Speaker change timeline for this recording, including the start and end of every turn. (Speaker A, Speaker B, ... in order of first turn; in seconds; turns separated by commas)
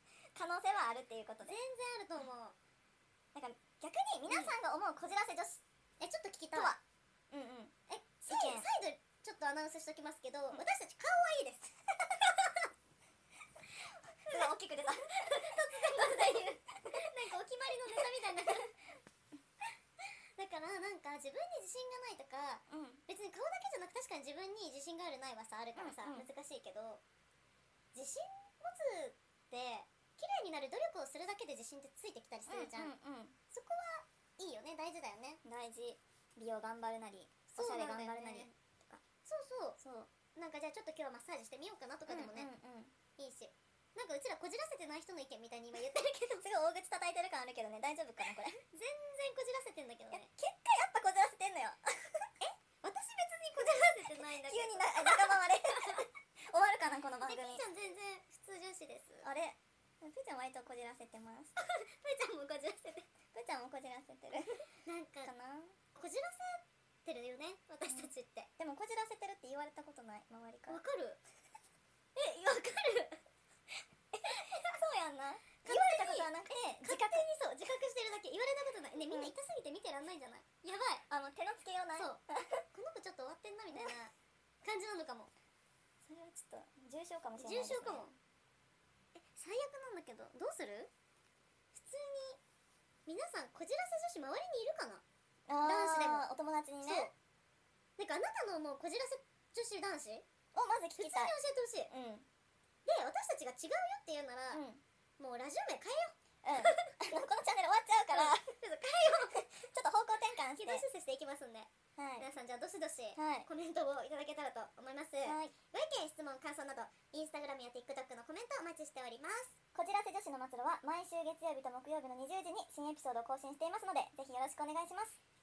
Speaker A: 0.3-1.6, Speaker B: 1.4-2.5, Speaker A: 3.3-5.6, Speaker B: 4.3-4.5, Speaker B: 6.0-6.8, Speaker A: 6.5-7.7, Speaker B: 7.9-11.7, Speaker A: 8.2-8.7, Speaker B: 14.3-18.7, Speaker A: 14.3-17.0, Speaker A: 18.1-18.5, Speaker B: 20.4-27.0, Speaker A: 22.7-23.0, Speaker A: 25.8-26.3, Speaker B: 27.9-32.9, Speaker A: 32.5-33.3, Speaker B: 33.5-35.4, Speaker A: 35.4-39.0, Speaker B: 37.5-39.8, Speaker A: 39.8-40.1, Speaker B: 40.3-42.5, Speaker A: 42.1-42.9, Speaker B: 43.2-46.5, Speaker A: 46.4-48.6, Speaker B: 48.7-50.3, Speaker A: 50.1-52.3, Speaker B: 52.4-56.0, Speaker A: 54.4-57.6, Speaker B: 57.2-59.3, Speaker A: 59.2-61.5, Speaker B: 61.6-63.1, Speaker A: 63.3-64.6, Speaker B: 64.8-65.3, Speaker A: 65.2-65.7, Speaker B: 65.9-68.5, Speaker A: 67.9-70.8, Speaker B: 70.7-71.2, Speaker B: 72.2-73.2, Speaker A: 74.1-77.2, Speaker B: 74.3-74.7, Speaker B: 75.6-76.3, Speaker B: 76.8-81.0, Speaker A: 79.1-79.3, Speaker A: 81.1-82.6, Speaker B: 82.7-84.1, Speaker B: 84.6-85.3, Speaker A: 86.0-88.1, Speaker B: 87.4-88.1, Speaker B: 89.2-90.9, Speaker B: 91.7-92.4, Speaker B: 93.0-95.0, Speaker A: 95.5-97.1, Speaker B: 95.6-96.3, Speaker B: 96.8-97.1, Speaker B: 98.0-100.2, Speaker A: 100.5-101.3, Speaker B: 101.0-101.9, Speaker A: 101.9-102.2, Speaker B: 102.8-104.6, Speaker A: 104.5-104.8, Speaker B: 105.2-107.0, Speaker A: 106.4-108.5, Speaker B: 108.1-109.4, Speaker A: 109.3-110.8, Speaker B: 110.5-119.5, Speaker A: 112.0-112.3, Speaker A: 113.2-113.5, Speaker A: 115.2-115.5, Speaker A: 119.7-125.2